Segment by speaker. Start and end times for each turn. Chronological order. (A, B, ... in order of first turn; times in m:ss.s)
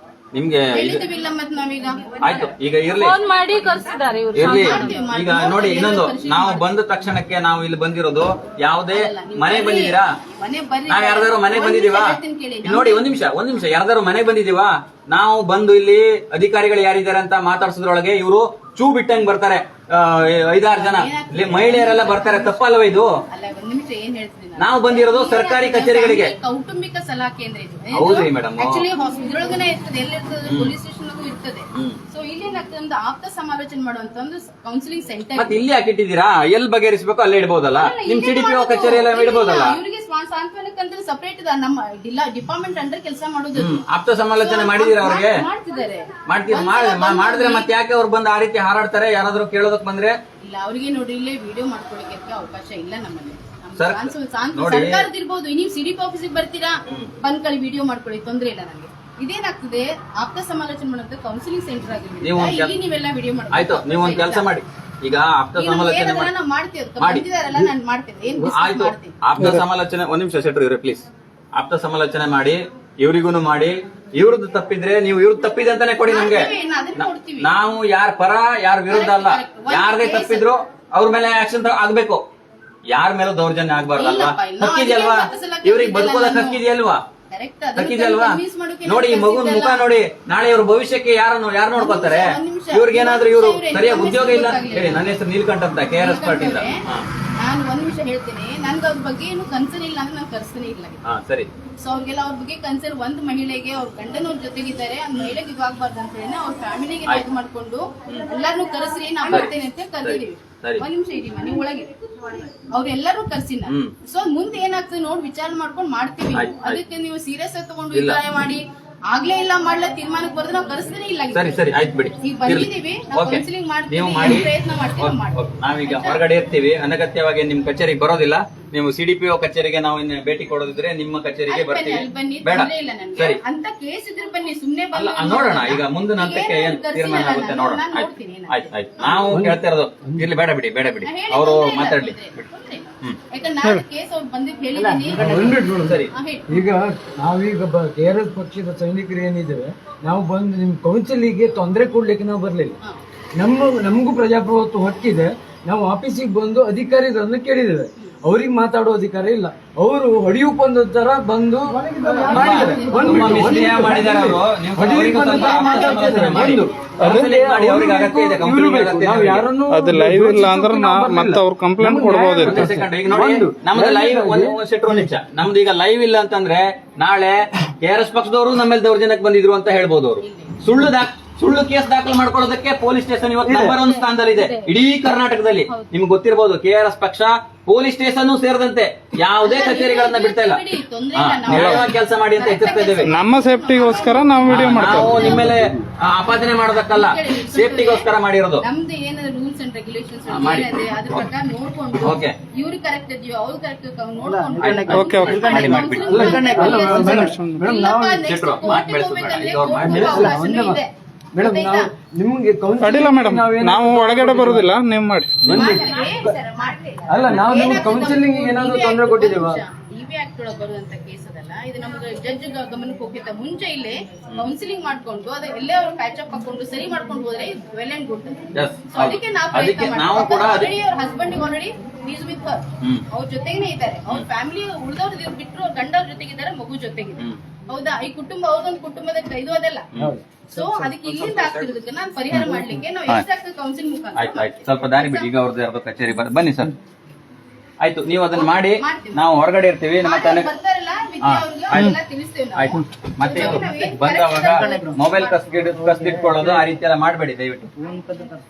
0:00.3-0:01.0 A
0:00.7-0:02.4 B
0:02.2-0:03.2 A
0:02.9-0:05.0 C
0:04.4-0:10.1 A
0:04.4-0:06.7 B
0:08.9-0:13.1 B
0:10.9-0:23.2 A
0:20.7-0:22.7 B
0:23.3-0:35.6 B
0:24.6-0:26.3 A
0:27.9-0:28.9 A
0:30.5-0:30.7 A
0:31.7-0:32.0 A
0:35.4-0:39.8 A
0:37.8-0:43.8 B
0:43.6-0:45.4 A
0:44.3-0:47.7 B
0:46.3-0:50.2 A
0:50.4-1:04.5 B
0:53.8-0:55.1 A
0:56.9-0:57.1 A
1:02.2-1:02.7 A
1:03.5-1:06.3 A
1:05.6-1:09.2 B
1:07.0-1:07.2 A
1:08.4-1:22.2 A
1:09.4-1:09.6 D
1:16.1-1:17.5 B
1:18.9-1:20.5 B
1:22.9-1:27.0 A
1:24.0-1:26.6 B
1:27.3-1:29.9 B
1:27.8-1:37.1 A
1:31.8-1:35.1 B
1:36.0-1:36.8 B
1:37.4-1:41.0 B
1:41.0-1:41.5 A
1:41.8-2:01.7 B
1:49.2-1:50.9 A
1:53.7-1:54.0 A
1:56.3-1:56.8 A
1:57.9-1:58.2 A
2:01.3-2:13.4 A
2:02.2-2:06.2 B
2:11.5-2:19.4 B
2:14.9-2:22.2 A
2:19.3-2:20.3 E
2:21.0-2:26.5 B
2:24.8-2:32.8 E
2:25.8-2:26.1 A
2:33.4-2:55.1 E
2:42.0-2:44.2 B
2:42.3-2:49.5 A
2:45.0-2:46.6 B
2:47.0-2:47.4 D
2:49.7-2:52.7 D
2:52.4-3:13.1 A
3:00.2-3:00.6 B
3:03.4-3:03.8 E
3:03.6-3:04.7 C
3:09.4-3:15.6 B
3:11.5-3:11.9 D
3:13.0-3:15.5 D
3:14.5-3:18.6 A
3:16.9-3:18.1 B
3:18.6-3:31.9 B
3:20.3-3:21.3 A
3:22.0-3:22.3 A
3:24.3-3:25.5 E
3:24.6-3:27.2 A
3:24.9-3:26.3 D
3:26.1-3:28.3 E
3:26.9-3:27.7 D
3:28.2-3:30.4 A
3:29.7-3:30.8 E
3:31.4-3:34.7 E
3:32.8-3:35.7 D
3:35.5-3:36.4 E
3:35.5-3:59.9 B
3:37.1-3:39.6 E
3:48.5-3:50.7 A
4:00.0-4:00.4 E
4:00.5-4:05.3 B
4:04.2-4:06.8 A
4:07.8-4:10.5 A
4:08.4-4:09.3 B
4:10.0-4:15.5 B
4:11.2-4:12.0 A
4:12.6-4:17.7 A